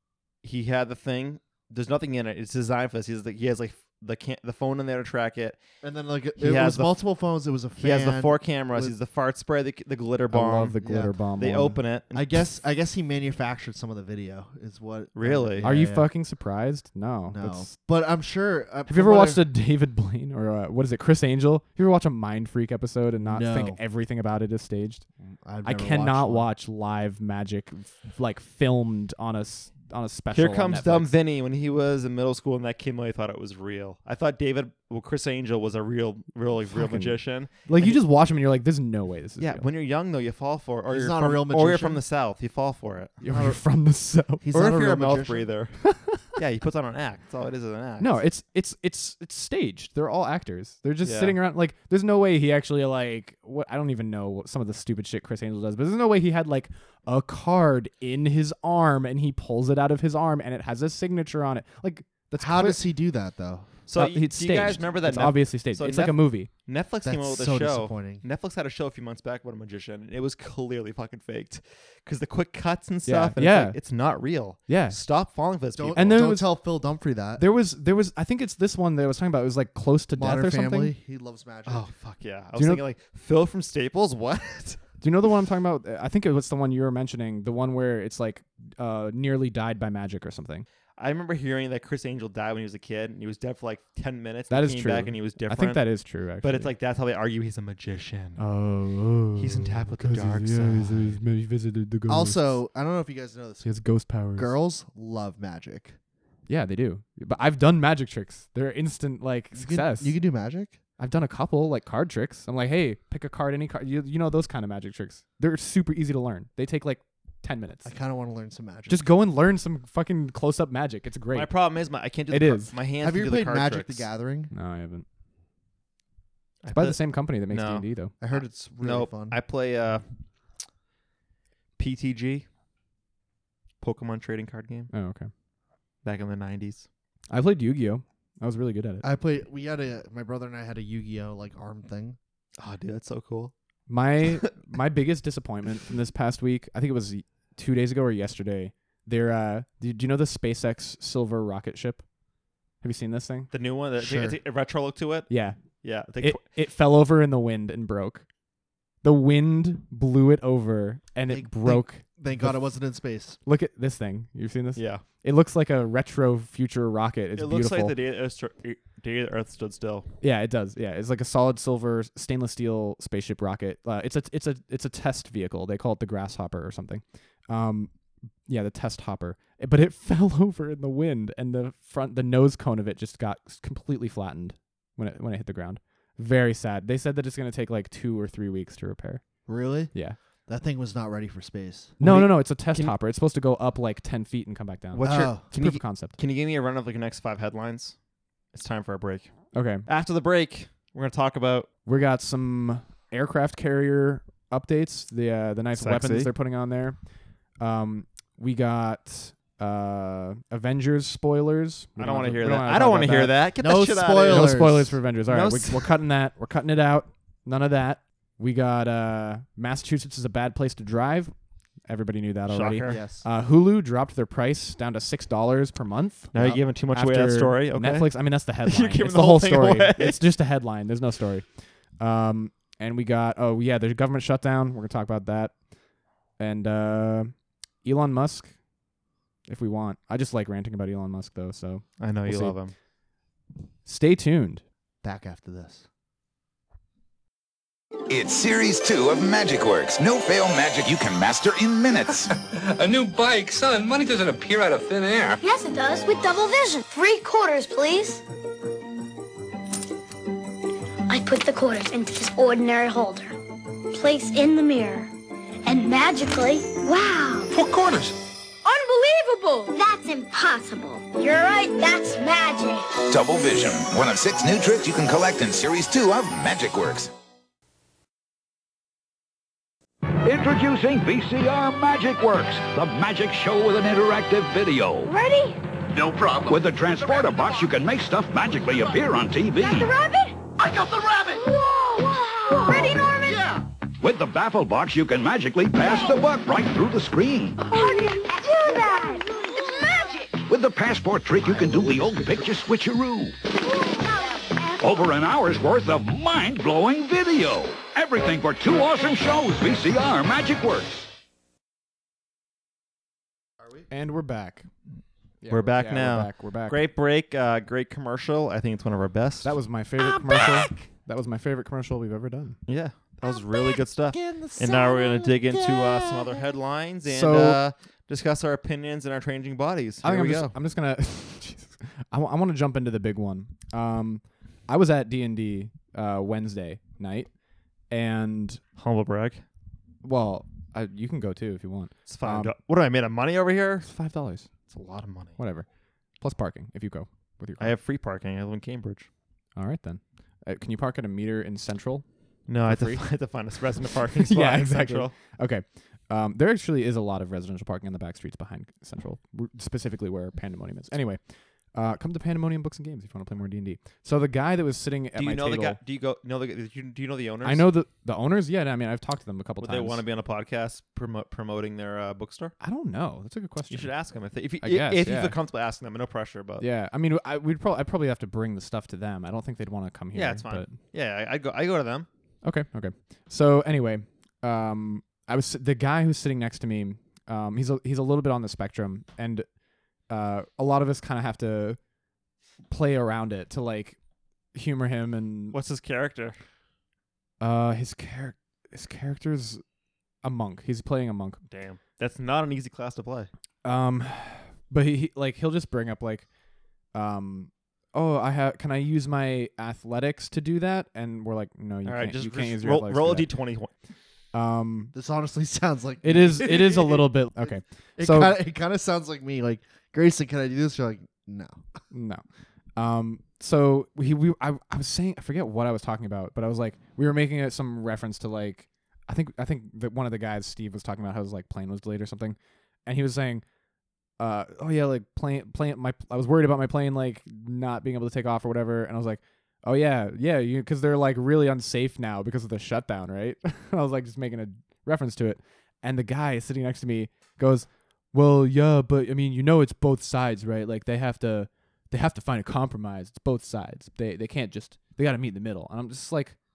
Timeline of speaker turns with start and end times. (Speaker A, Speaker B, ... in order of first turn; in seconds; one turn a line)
Speaker A: 0.4-5.6
Speaker B: 5.8-8.9
Speaker A: 6.4-6.9
Speaker A: 7.8-10.8
Speaker C: 10.3-11.8
Speaker B: 10.8-11.1
Speaker A: 11.4-12.4
Speaker B: 12.1-16.1
Speaker A: 15.1-15.7
Speaker C: 15.6-17.7
Speaker B: 17.3-19.4
Speaker C: 18.9-25.0
Speaker B: 23.2-23.8
Speaker B: 25.2-26.5
Speaker C: 25.6-31.1
Speaker A: 30.3-38.0
Speaker C: 36.7-39.7
Speaker A: 39.4-43.2
Speaker B: 40.9-42.0
Speaker C: 43.2-44.4
Speaker B: 43.3-43.6
Speaker B: 44.4-45.5
Speaker A: 44.5-48.2
Speaker C: 48.0-62.8
Speaker A: 51.0-51.4
Speaker B: 62.4-63.7
Speaker A: 63.9-76.2
Speaker C: 63.9-66.5
Speaker B: 67.0-68.2
Speaker C: 73.0-73.8
Speaker C: 74.7-75.0
Speaker B: 75.8-77.4
Speaker C: 75.9-76.6
Speaker C: 77.4-80.9
Speaker B: 80.2-81.8
Speaker A: 81.7-84.8
Speaker C: 82.5-82.8
Speaker C: 85.0-90.7
Speaker A: 91.0-95.8
Speaker C: 94.5-96.7
Speaker A: 96.4-98.4
Speaker C: 98.4-102.6
Speaker A: 99.3-101.2
Speaker B: 102.1-103.7
Speaker C: 103.6-104.5
Speaker B: 104.3-106.0
Speaker C: 106.5-110.2
Speaker B: 109.5-110.8
Speaker C: 111.0-117.9
Speaker B: 117.8-119.0
Speaker C: 118.9-121.5
Speaker A: 121.3-124.1
Speaker C: 122.3-122.7
Speaker B: 123.0-124.5
Speaker C: 124.5-125.0
Speaker A: 126.6-130.0
Speaker C: 126.7-128.1
Speaker B: 128.2-129.4
Speaker A: 131.8-132.4
Speaker A: 133.8-134.9
Speaker C: 134.9-135.3
Speaker A: 136.0-136.9
Speaker C: 137.3-139.1
Speaker B: 139.0-142.2
Speaker A: 142.6-143.5
Speaker C: 143.9-152.0
Speaker C: 152.8-153.5
Speaker A: 153.5-155.3
Speaker B: 154.0-154.4
Speaker C: 155.3-155.6
Speaker A: 155.8-156.4
Speaker C: 156.2-158.2
Speaker C: 159.0-162.7
Speaker B: 161.3-163.4
Speaker C: 163.4-167.9
Speaker A: 164.8-165.0
Speaker A: 167.3-170.1
Speaker C: 170.2-177.9
Speaker C: 178.4-189.2
Speaker B: 189.4-189.9
Speaker C: 189.9-190.2
Speaker B: 190.4-192.0
Speaker C: 192.0-196.2
Speaker A: 192.0-192.9
Speaker A: 194.9-198.0
Speaker B: 195.0-195.4
Speaker A: 198.5-201.7
Speaker C: 199.5-199.8
Speaker C: 201.8-207.0
Speaker A: 205.8-206.3
Speaker C: 207.6-213.3
Speaker A: 212.0-214.7
Speaker B: 213.6-215.0
Speaker C: 214.3-221.3
Speaker A: 215.3-215.9
Speaker C: 221.8-235.5
Speaker A: 222.5-223.0
Speaker B: 222.8-223.2
Speaker A: 226.3-228.1
Speaker A: 228.6-230.2
Speaker C: 236.4-238.6
Speaker C: 239.5-242.6
Speaker A: 242.0-242.7
Speaker C: 243.8-244.6
Speaker B: 245.0-245.9
Speaker D: 248.1-252.4
Speaker E: 252.7-255.4
Speaker F: 255.4-258.2
Speaker F: 261.1-263.3
Speaker F: 263.9-265.1
Speaker F: 265.6-267.5
Speaker E: 267.5-268.1
Speaker F: 268.6-272.9
Speaker D: 273.1-277.1
Speaker G: 280.2-285.1
Speaker F: 285.0-285.6
Speaker E: 286.0-286.4
Speaker G: 286.1-289.9
Speaker F: 289.6-290.4
Speaker F: 291.2-293.5
Speaker G: 294.0-297.6
Speaker F: 295.8-296.2
Speaker F: 297.6-300.3
Speaker G: 300.5-303.4
Speaker F: 303.6-305.1
Speaker G: 304.8-311.1
Speaker C: 313.9-314.7
Speaker C: 315.4-316.8
Speaker A: 315.5-319.6
Speaker C: 319.4-322.6
Speaker A: 322.7-330.5
Speaker B: 324.1-326.1
Speaker C: 327.1-327.6
Speaker C: 330.0-337.3
Speaker C: 337.9-338.6
Speaker A: 338.8-339.4
Speaker C: 340.0-342.5
Speaker A: 342.1-343.9
Speaker C: 343.8-344.5
Speaker A: 344.7-345.4
Speaker C: 345.4-345.7
Speaker C: 346.2-347.7
Speaker A: 347.6-349.1
Speaker C: 349.5-353.0
Speaker A: 352.5-355.1
Speaker C: 354.2-361.2
Speaker C: 361.7-365.8
Speaker A: 365.1-367.7
Speaker C: 367.4-370.0
Speaker A: 369.6-372.5
Speaker C: 372.6-373.9
Speaker A: 373.7-376.6
Speaker C: 374.6-375.3
Speaker C: 376.6-380.7
Speaker A: 380.1-382.1
Speaker C: 382.4-389.5
Speaker C: 390.1-391.8
Speaker C: 392.7-394.0
Speaker C: 394.5-395.6
Speaker A: 395.5-396.4
Speaker C: 397.4-399.6
Speaker C: 400.2-401.4
Speaker A: 401.5-403.3
Speaker C: 403.6-406.3
Speaker C: 406.9-413.3
Speaker A: 411.8-413.7
Speaker C: 414.3-414.9
Speaker B: 414.9-421.6
Speaker C: 416.0-418.4
Speaker C: 421.9-422.2
Speaker C: 422.8-433.4
Speaker C: 434.2-456.4